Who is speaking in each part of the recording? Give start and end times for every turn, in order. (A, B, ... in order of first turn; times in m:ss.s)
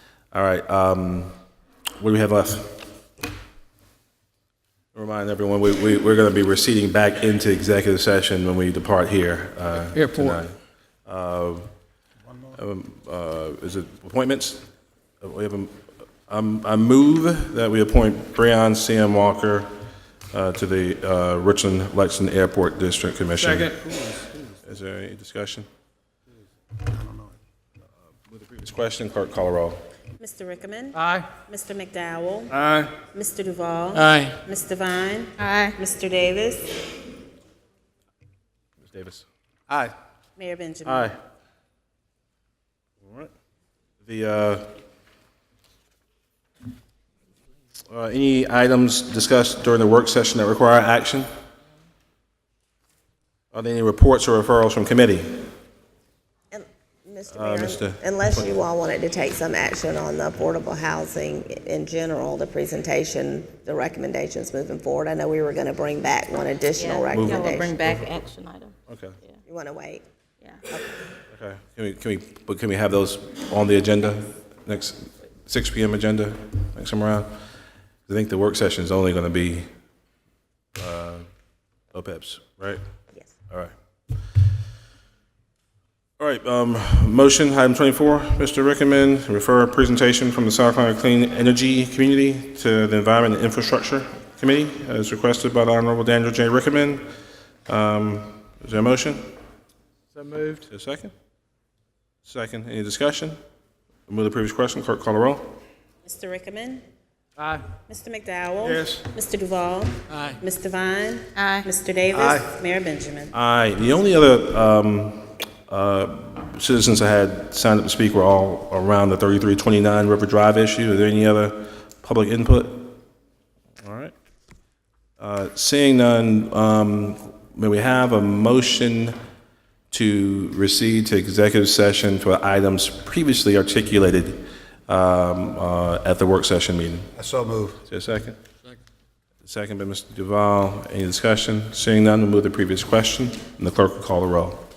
0:00.3-0:01.3 A
0:02.0-0:02.8 A
0:04.9-0:10.5 A
0:09.9-0:10.4 B
0:11.0-0:11.7 A
0:12.5-0:14.6 A
0:15.2-0:19.7 A
0:20.3-0:23.8 A
0:23.6-0:24.3 C
0:24.6-0:25.7 A
0:26.9-0:27.3 C
0:28.3-0:29.8 A
0:30.2-0:32.5 D
0:31.0-0:31.3 B
0:32.6-0:32.9 A
0:33.1-0:36.9 D
0:33.9-0:34.4 B
0:35.4-0:35.8 E
0:38.8-0:39.9 A
0:40.4-0:41.1 D
0:40.8-0:41.1 A
0:43.0-0:43.3 A
0:44.0-0:44.7 A
0:47.9-0:51.3 A
0:53.5-0:55.5 A
0:56.5-1:07.8 F
0:57.3-0:58.4 A
1:06.8-1:09.4 E
1:07.1-1:07.5 A
1:08.9-1:09.2 A
1:09.4-1:10.0 F
1:10.7-1:11.0 F
1:11.3-1:17.3 A
1:18.1-1:19.7 A
1:20.8-1:21.3 A
1:21.9-1:22.8 A
1:26.2-1:37.0 A
1:37.7-1:39.2 A
1:40.1-1:40.6 B
1:40.7-1:41.1 A
1:42.2-1:43.4 A
1:44.1-1:45.5 A
1:46.0-1:46.8 D
1:47.4-1:47.7 B
1:47.9-1:53.3 D
1:48.6-1:49.0 A
1:50.1-1:50.4 B
1:51.4-1:51.7 E
1:52.1-1:52.5 C
1:53.3-2:03.0 A
2:03.8-2:04.1 A
2:05.2-2:09.1 A
2:09.9-2:17.1 A
2:17.2-2:17.8 C
2:17.9-2:18.4 A
2:19.4-2:24.6 A